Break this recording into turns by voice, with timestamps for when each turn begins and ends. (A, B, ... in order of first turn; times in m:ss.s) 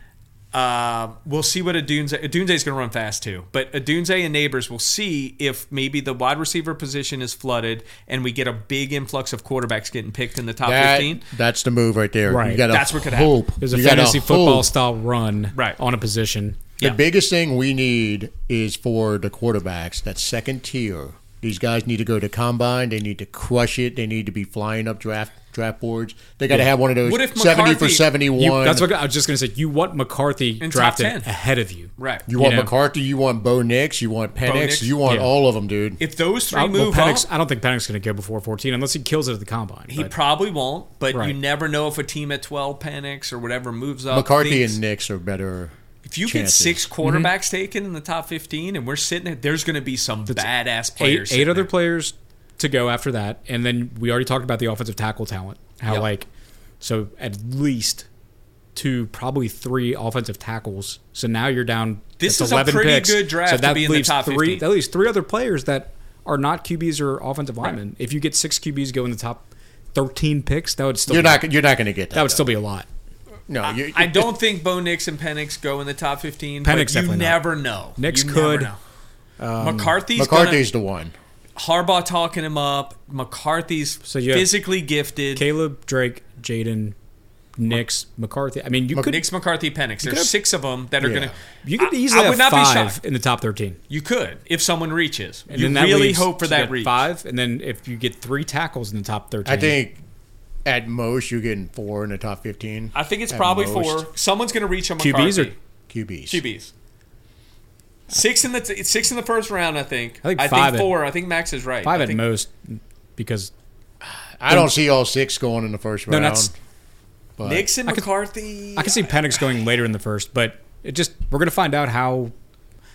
0:00.5-0:11.2 A
0:10.6-0:14.7 B
0:12.3-0:12.6 C
0:12.7-0:13.4 A
0:13.6-0:16.6 C
0:16.8-0:28.9 B
0:27.0-0:28.1 A
0:28.4-0:32.7 C
0:30.6-0:31.3 A
0:32.0-0:32.2 A
0:32.3-0:36.0 B
0:34.4-0:34.9 A
0:36.0-0:37.3 A
0:36.5-0:40.1 C
0:39.9-0:44.8 A
0:44.1-0:45.7 B
0:46.0-0:51.7 A
0:46.2-0:46.8 B
0:47.0-0:47.3 C
0:50.3-0:56.3 C
0:56.8-0:58.1 C
0:58.7-1:11.4 C
1:02.2-1:04.6 A
1:11.1-1:12.5 B
1:12.1-1:12.9 C
1:13.5-1:14.3 B
1:13.6-1:18.8 A
1:16.6-1:17.4 C
1:18.0-1:18.7 C
1:19.4-1:19.9 C
1:19.6-1:20.6 A
1:20.2-1:21.1 B
1:21.6-1:25.4 A
1:24.0-1:24.5 C
1:25.3-1:26.9 C
1:27.6-1:29.2 C
1:28.9-1:33.0 A
1:30.0-1:30.3 C
1:31.0-1:31.3 B
1:31.6-1:33.8 C
1:33.9-1:37.0 A
1:35.5-1:39.8 C
1:39.4-1:40.0 B
1:40.6-1:44.1 B
1:42.9-1:45.6 A
1:45.0-1:45.5 C
1:45.9-1:46.4 B
1:46.3-1:46.7 A
1:48.1-1:52.2 A
1:50.2-1:50.9 C
1:51.8-1:53.5 C
1:54.1-1:56.5 B
1:56.1-1:56.5 C
1:57.4-1:57.7 B
1:57.4-1:59.3 A
1:58.8-2:02.3 C